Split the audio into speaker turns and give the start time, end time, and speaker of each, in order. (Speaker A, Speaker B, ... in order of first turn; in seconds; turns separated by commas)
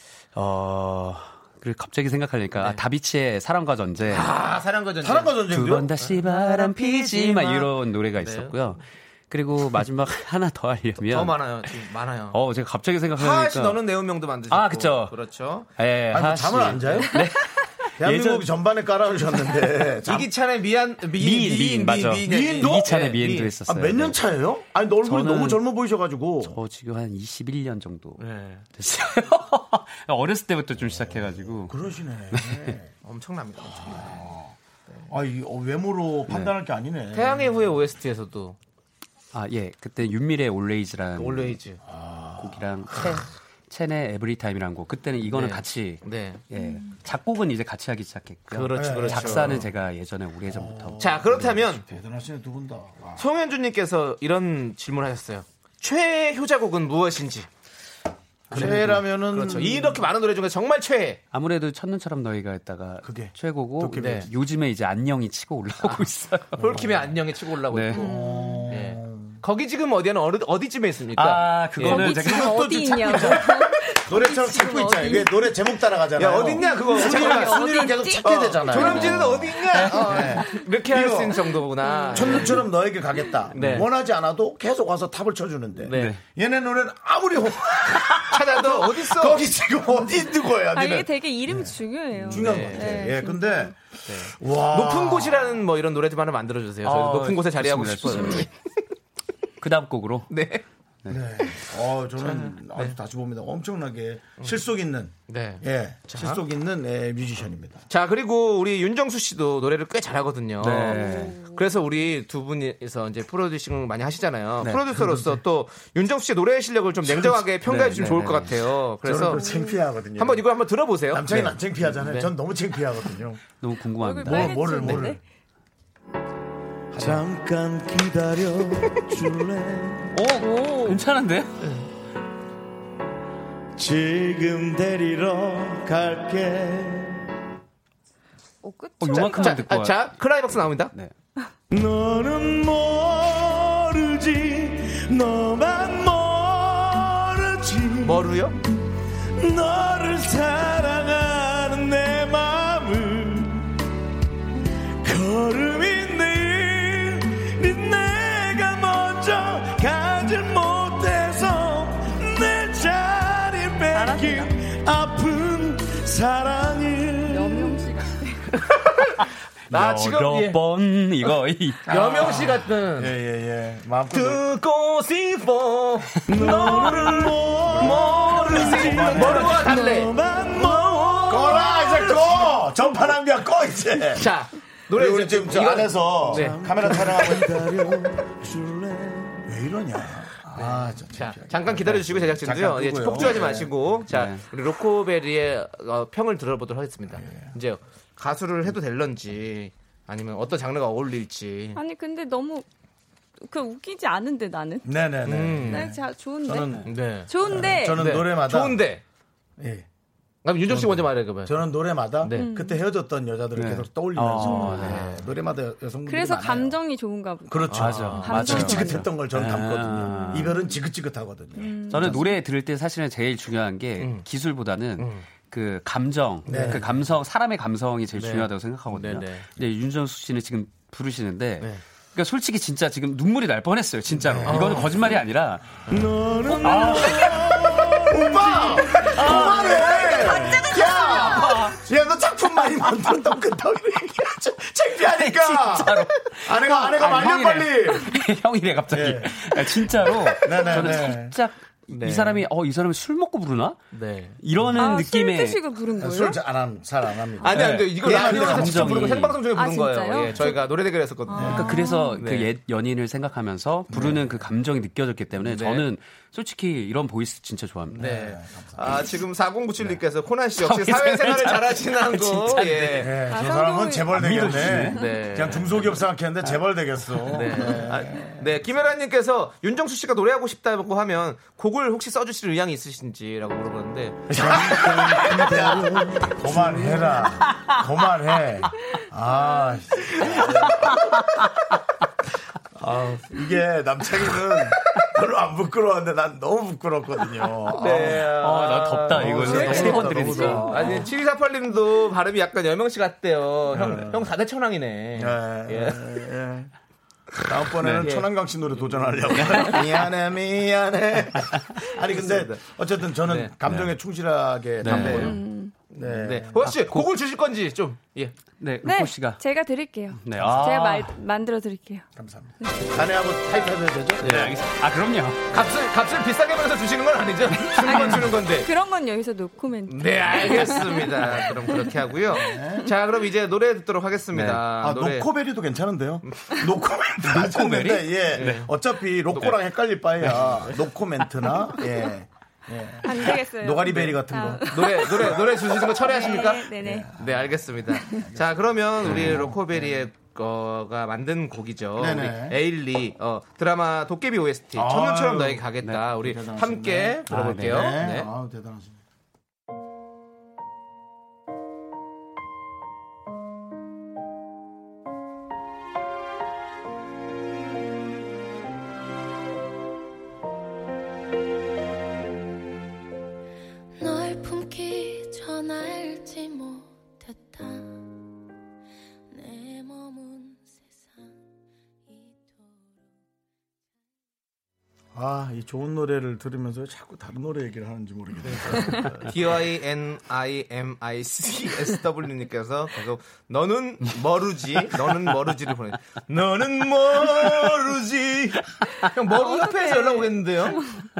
Speaker A: 0.3-4.3, Speaker B: 4.1-5.4, Speaker C: 5.0-5.9, Speaker A: 5.5-11.5, Speaker B: 6.0-8.8, Speaker B: 11.0-12.4, Speaker A: 12.3-13.8, Speaker B: 13.1-15.7, Speaker A: 14.5-15.2, Speaker A: 15.8-18.5, Speaker C: 16.1-17.2, Speaker C: 18.0-20.3, Speaker B: 20.0-23.5, Speaker A: 21.1-24.2, Speaker C: 22.2-22.9, Speaker C: 23.6-26.6, Speaker A: 25.0-25.6, Speaker A: 26.4-28.2, Speaker B: 28.2-28.6, Speaker A: 28.7-31.8, Speaker C: 30.8-32.9, Speaker A: 32.3-32.7, Speaker B: 33.0-34.3, Speaker C: 33.6-34.5, Speaker C: 35.1-37.6, Speaker A: 36.3-36.5, Speaker B: 37.1-38.6, Speaker A: 39.3-41.6, Speaker B: 41.1-41.8, Speaker C: 41.8-43.1, Speaker A: 42.4-51.6, Speaker B: 45.2-46.4, Speaker D: 46.5-47.0, Speaker B: 48.5-49.6, Speaker C: 48.7-49.7, Speaker C: 50.5-53.3, Speaker B: 51.0-51.8, Speaker B: 53.2-57.5, Speaker C: 58.5-60.0, Speaker A: 58.5-59.0, Speaker B: 58.5-61.2, Speaker A: 61.3-66.9, Speaker C: 63.0-64.3, Speaker B: 63.9-64.3, Speaker B: 65.8-68.1, Speaker C: 66.6-67.1, Speaker A: 67.7-68.0, Speaker D: 68.0-68.7, Speaker C: 68.0-69.4, Speaker B: 68.7-72.0, Speaker A: 71.1-73.2, Speaker D: 71.8-75.6, Speaker C: 72.0-81.6, Speaker B: 76.2-77.6, Speaker D: 76.5-79.0, Speaker B: 78.2-82.7, Speaker A: 78.8-80.0, Speaker D: 80.0-80.6, Speaker D: 81.8-82.6, Speaker C: 82.1-95.6, Speaker B: 83.5-83.9, Speaker B: 85.8-86.1, Speaker A: 85.9-86.2, Speaker B: 88.2-89.5, Speaker D: 90.7-93.7, Speaker B: 92.3-93.1, Speaker B: 94.0-98.5, Speaker A: 96.8-98.5, Speaker A: 99.6-100.3, Speaker B: 100.3-100.6, Speaker C: 101.1-107.8, Speaker B: 102.2-103.0, Speaker B: 105.3-106.4, Speaker B: 107.9-119.4, Speaker A: 110.6-111.4, Speaker D: 111.0-111.4, Speaker C: 115.0-115.3, Speaker C: 117.0-117.4, Speaker A: 117.5-118.6, Speaker C: 119.0-120.5, Speaker D: 119.3-119.8, Speaker B: 120.2-122.3, Speaker C: 121.1-123.4, Speaker A: 123.6-124.9, Speaker D: 124.0-125.2, Speaker C: 124.2-125.2, Speaker C: 126.9-130.2, Speaker A: 130.1-131.5, Speaker D: 130.3-131.0, Speaker C: 133.8-137.3, Speaker D: 138.6-139.6, Speaker A: 139.0-140.2, Speaker B: 139.1-140.9, Speaker C: 141.7-148.3, Speaker B: 148.0-148.6, Speaker C: 149.3-153.7, Speaker C: 155.0-167.8, Speaker D: 163.9-164.5, Speaker D: 167.3-168.8, Speaker A: 169.7-172.0, Speaker B: 169.7-170.6, Speaker B: 171.8-173.2, Speaker C: 171.9-174.4, Speaker B: 174.1-182.5, Speaker C: 176.3-184.3, Speaker A: 178.9-179.4, Speaker B: 184.1-187.5, Speaker C: 184.9-193.7, Speaker B: 190.5-201.8, Speaker A: 194.1-194.4, Speaker C: 197.1-197.5, Speaker D: 201.7-202.7, Speaker D: 203.4-204.9, Speaker C: 204.8-208.8, Speaker B: 205.2-205.9, Speaker D: 205.7-208.0, Speaker B: 206.8-209.0, Speaker C: 209.6-209.9, Speaker B: 210.4-211.6, Speaker C: 210.7-216.8, Speaker B: 212.2-212.5, Speaker D: 212.3-212.9, Speaker A: 213.5-215.2, Speaker D: 214.4-214.9, Speaker B: 214.7-215.3, Speaker D: 216.0-219.1, Speaker C: 217.5-222.2, Speaker B: 217.7-218.7, Speaker A: 217.7-220.6, Speaker D: 220.1-220.8, Speaker D: 221.6-222.4, Speaker A: 221.9-235.8, Speaker B: 224.0-224.2, Speaker B: 225.0-225.2, Speaker B: 226.4-226.9, Speaker C: 226.5-226.9, Speaker B: 228.2-229.5, Speaker C: 234.2-235.0, Speaker B: 234.4-235.0, Speaker B: 235.9-237.6, Speaker C: 235.9-248.1, Speaker A: 236.5-237.5, Speaker B: 238.2-239.7, Speaker A: 239.0-241.8, Speaker A: 245.0-253.8, Speaker C: 248.9-251.4, Speaker B: 251.9-252.4, Speaker B: 253.9-254.4, Speaker A: 254.4-255.6, Speaker D: 254.8-256.4, Speaker C: 255.9-259.2, Speaker B: 257.4-262.5, Speaker A: 257.4-259.4, Speaker D: 259.4-260.7, Speaker D: 261.3-262.2, Speaker A: 261.3-268.1, Speaker C: 261.4-261.7, Speaker C: 263.9-264.2, Speaker B: 265.4-265.8, Speaker B: 267.9-273.1, Speaker C: 268.0-268.9, Speaker A: 270.6-273.2, Speaker C: 273.0-278.5, Speaker D: 273.2-275.2, Speaker A: 274.1-275.0, Speaker B: 274.9-276.0, Speaker B: 277.2-285.9, Speaker A: 277.2-277.8, Speaker C: 284.3-291.5, Speaker A: 290.2-291.2, Speaker C: 292.7-298.3, Speaker B: 297.7-306.2, Speaker A: 297.9-300.9, Speaker C: 299.1-301.1, Speaker D: 299.4-301.0, Speaker C: 303.7-304.3, Speaker C: 305.1-306.7, Speaker C: 307.4-315.4, Speaker A: 307.8-308.1, Speaker B: 308.0-309.8, Speaker A: 309.4-309.8, Speaker B: 312.1-312.6, Speaker B: 313.2-313.5, Speaker A: 313.6-313.9, Speaker A: 314.8-315.4, Speaker B: 314.8-315.4, Speaker D: 315.2-315.7, Speaker B: 315.9-318.3, Speaker C: 315.9-316.6, Speaker A: 316.6-317.1, Speaker A: 318.6-319.4, Speaker D: 318.8-322.1, Speaker A: 320.1-321.1, Speaker C: 322.1-324.4, Speaker D: 322.6-322.9, Speaker B: 324.2-324.6, Speaker A: 324.2-325.6, Speaker B: 325.5-328.7, Speaker A: 327.7-328.4, Speaker D: 327.8-331.9, Speaker B: 329.9-335.3, Speaker C: 332.2-332.9, Speaker D: 332.5-332.9, Speaker C: 334.6-350.0, Speaker B: 336.2-336.6, Speaker A: 337.2-338.6, Speaker B: 338.3-338.7, Speaker B: 339.3-339.6, Speaker B: 340.2-340.9, Speaker D: 343.0-345.4, Speaker B: 343.9-358.3, Speaker D: 345.9-347.1, Speaker A: 349.0-349.6, Speaker C: 352.0-352.6, Speaker C: 354.7-359.0, Speaker A: 355.8-356.1, Speaker A: 357.3-358.0, Speaker E: 374.0-378.2, Speaker E: 379.3-381.4, Speaker E: 382.1-382.9, Speaker C: 385.1-389.4, Speaker B: 388.4-398.0, Speaker C: 397.0-398.6, Speaker B: 399.0-400.8, Speaker D: 399.3-401.0